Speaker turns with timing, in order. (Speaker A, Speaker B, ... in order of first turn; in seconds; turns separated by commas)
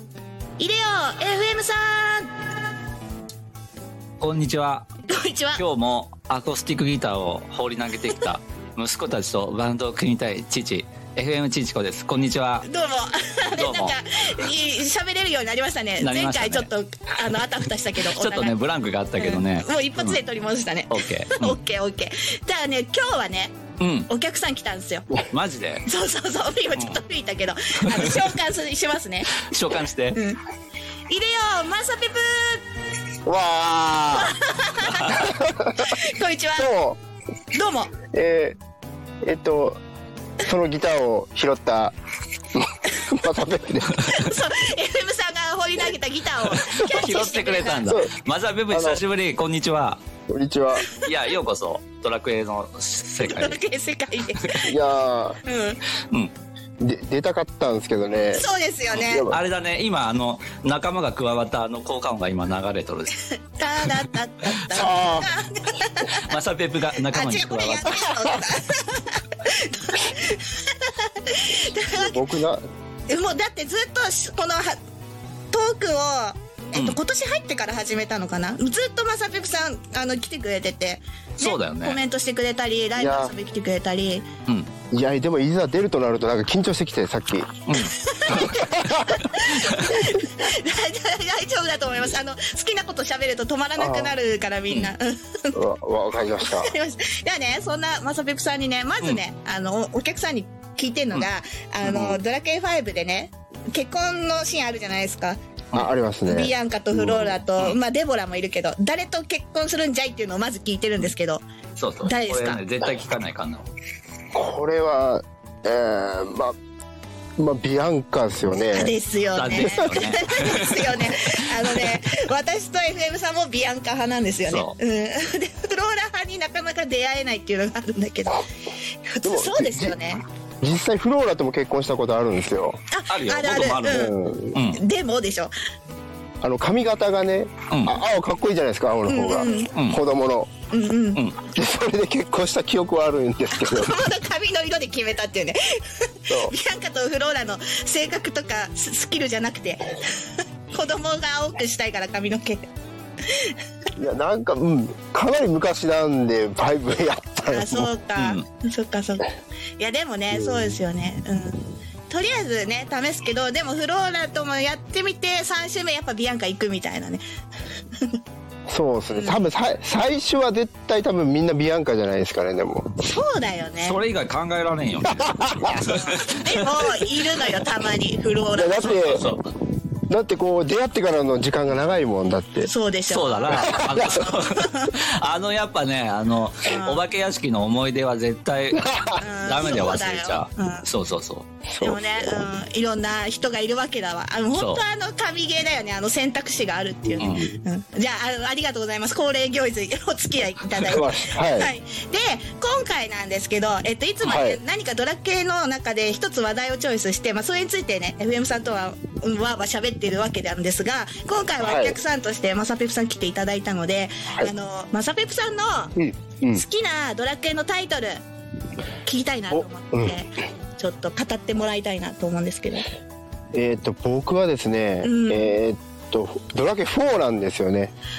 Speaker A: 0.6-2.3, Speaker B: 4.2-4.9, Speaker A: 5.1-5.6, Speaker B: 5.5-12.7, Speaker A: 12.6-18.6, Speaker B: 13.6-13.9, Speaker B: 16.0-16.7, Speaker B: 18.0-20.2, Speaker A: 19.1-23.6, Speaker B: 20.9-21.6, Speaker B: 23.8-24.1, Speaker A: 24.1-25.1, Speaker B: 25.3-25.8, Speaker A: 25.9-29.4, Speaker B: 27.9-28.2, Speaker B: 29.4-30.2, Speaker A: 30.1-30.4, Speaker A: 31.1-32.6, Speaker C: 33.2-34.4, Speaker A: 34.1-36.7, Speaker C: 35.1-35.9, Speaker C: 36.6-37.0, Speaker A: 37.5-37.9, Speaker C: 38.1-38.5, Speaker C: 39.2-39.8, Speaker C: 40.4-42.0, Speaker C: 42.5-44.1, Speaker A: 44.0-47.9, Speaker B: 46.7-50.0, Speaker C: 47.9-48.1, Speaker C: 48.7-49.0, Speaker C: 50.3-50.9, Speaker B: 51.0-53.6, Speaker A: 53.2-54.7, Speaker C: 54.6-55.4, Speaker A: 55.4-55.8, Speaker C: 56.8-58.5, Speaker A: 58.3-59.3, Speaker B: 58.9-63.1, Speaker C: 59.0-59.4, Speaker A: 63.5-66.3, Speaker B: 64.5-64.9, Speaker C: 64.7-65.3, Speaker B: 66.1-68.1, Speaker A: 67.1-72.2, Speaker C: 71.9-72.6, Speaker A: 73.1-74.8, Speaker A: 75.5-84.2, Speaker B: 81.4-82.0, Speaker C: 83.0-83.3, Speaker C: 84.9-87.5, Speaker B: 87.7-88.6, Speaker A: 88.0-95.5, Speaker C: 88.3-89.2, Speaker B: 89.2-89.8, Speaker C: 93.8-94.1, Speaker C: 95.5-96.7, Speaker A: 96.4-105.4, Speaker C: 101.8-102.2, Speaker C: 105.8-107.4, Speaker A: 106.2-111.4, Speaker B: 111.8-113.7, Speaker A: 112.0-112.6, Speaker C: 114.3-116.5, Speaker C: 117.4-118.9, Speaker A: 118.7-128.5, Speaker B: 119.3-121.9, Speaker C: 119.5-119.9, Speaker B: 124.5-124.7, Speaker A: 129.1-130.2, Speaker C: 129.2-129.9, Speaker C: 130.6-132.8, Speaker A: 132.9-135.5, Speaker B: 133.1-134.8, Speaker C: 133.9-134.6, Speaker C: 136.4-140.5, Speaker B: 137.7-138.0, Speaker A: 139.1-139.7, Speaker B: 139.7-140.0, Speaker A: 140.7-141.2, Speaker B: 141.1-141.4, Speaker C: 141.5-143.9, Speaker A: 143.5-152.7, Speaker C: 146.3-146.5, Speaker A: 153.3-153.6, Speaker C: 154.0-157.9, Speaker A: 157.5-167.2, Speaker B: 158.2-158.4, Speaker C: 160.3-160.8, Speaker C: 168.7-172.9, Speaker A: 169.1-169.4, Speaker A: 173.0-174.0, Speaker B: 173.8-177.1, Speaker C: 175.1-175.8, Speaker A: 175.8-179.2, Speaker C: 178.6-179.2, Speaker B: 178.9-179.5, Speaker C: 180.1-182.7, Speaker A: 182.6-184.9, Speaker B: 183.1-191.4, Speaker C: 183.5-184.3, Speaker A: 186.6-187.0, Speaker C: 188.7-189.2, Speaker A: 189.2-190.8, Speaker C: 191.7-192.3, Speaker A: 191.8-215.9, Speaker B: 194.5-194.8, Speaker C: 197.0-197.6, Speaker B: 197.2-197.4, Speaker C: 200.8-201.7, Speaker C: 204.2-204.6, Speaker C: 211.6-212.0, Speaker C: 215.9-216.6, Speaker A: 216.5-218.2, Speaker A: 219.0-222.9, Speaker C: 219.5-220.1, Speaker C: 223.5-227.9, Speaker A: 225.0-225.5